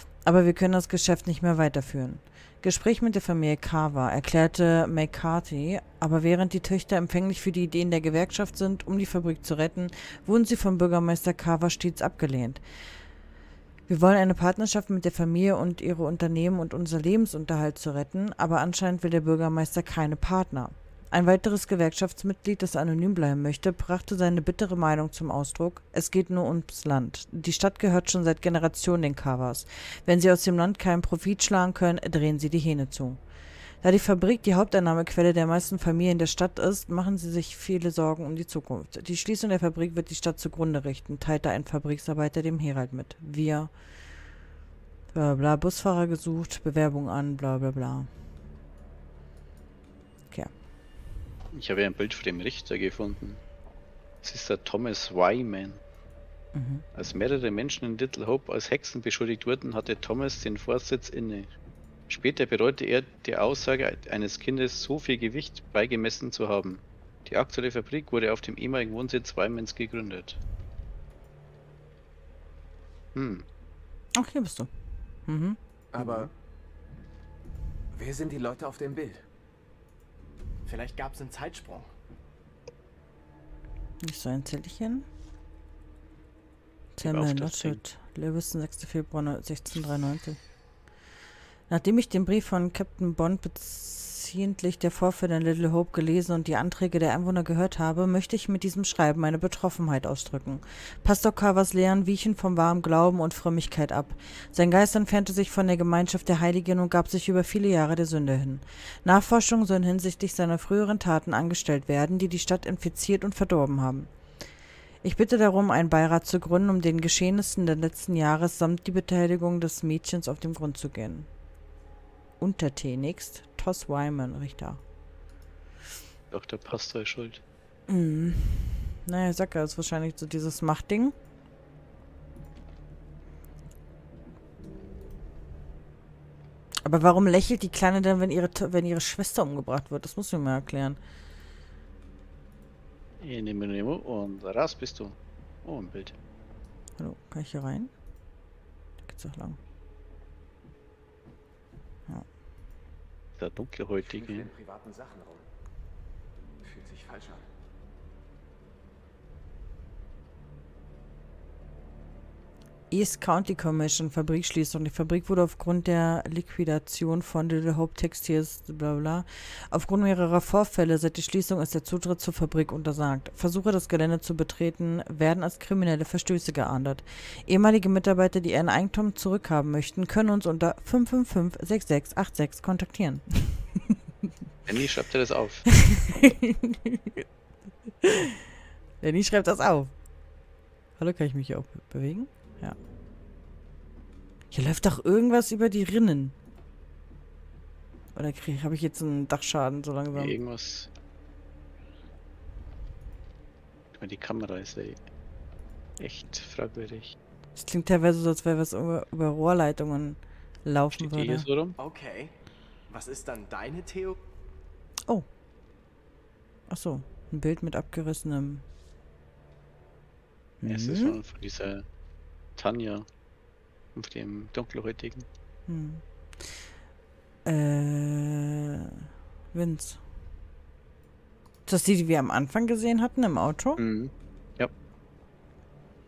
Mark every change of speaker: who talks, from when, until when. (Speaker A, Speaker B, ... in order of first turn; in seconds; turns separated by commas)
Speaker A: 0.2-12.6, Speaker A: 13.9-33.2, Speaker A: 33.8-43.7, Speaker A: 45.1-48.1, Speaker B: 51.5-53.4, Speaker B: 54.2-55.8, Speaker A: 56.5-56.8, Speaker B: 56.9-61.5, Speaker B: 62.1-70.4, Speaker B: 73.1-73.4, Speaker A: 74.1-74.7, Speaker A: 75.2-75.6, Speaker C: 75.9-76.3, Speaker C: 77.9-79.2, Speaker D: 80.7-81.8, Speaker A: 84.0-85.0, Speaker A: 87.0-90.4, Speaker B: 87.0-87.8, Speaker A: 91.7-114.1, Speaker A: 115.0-121.3, Speaker A: 122.4-124.8, Speaker B: 126.3-127.4, Speaker A: 127.9-131.1, Speaker A: 136.8-141.0, Speaker B: 143.2-146.1, Speaker A: 147.0-147.9, Speaker A: 149.0-149.6, Speaker B: 153.4-154.5, Speaker C: 154.2-155.4, Speaker C: 156.7-157.4, Speaker A: 162.9-183.8, Speaker B: 184.7-185.7, Speaker A: 185.8-187.2, Speaker A: 188.0-188.4, Speaker A: 189.0-189.9, Speaker A: 191.0-192.8, Speaker A: 194.5-196.3, Speaker A: 198.1-200.4, Speaker B: 200.1-200.9, Speaker B: 203.9-205.0, Speaker B: 206.0-207.1, Speaker A: 207.6-211.5, Speaker B: 210.9-211.8, Speaker D: 211.9-212.3, Speaker D: 212.9-214.1, Speaker A: 216.7-218.6, Speaker A: 220.6-221.2, Speaker B: 220.7-221.8, Speaker B: 222.6-223.1, Speaker B: 223.9-225.2, Speaker A: 225.7-226.0, Speaker A: 227.4-230.0, Speaker A: 231.7-233.8, Speaker B: 233.8-234.7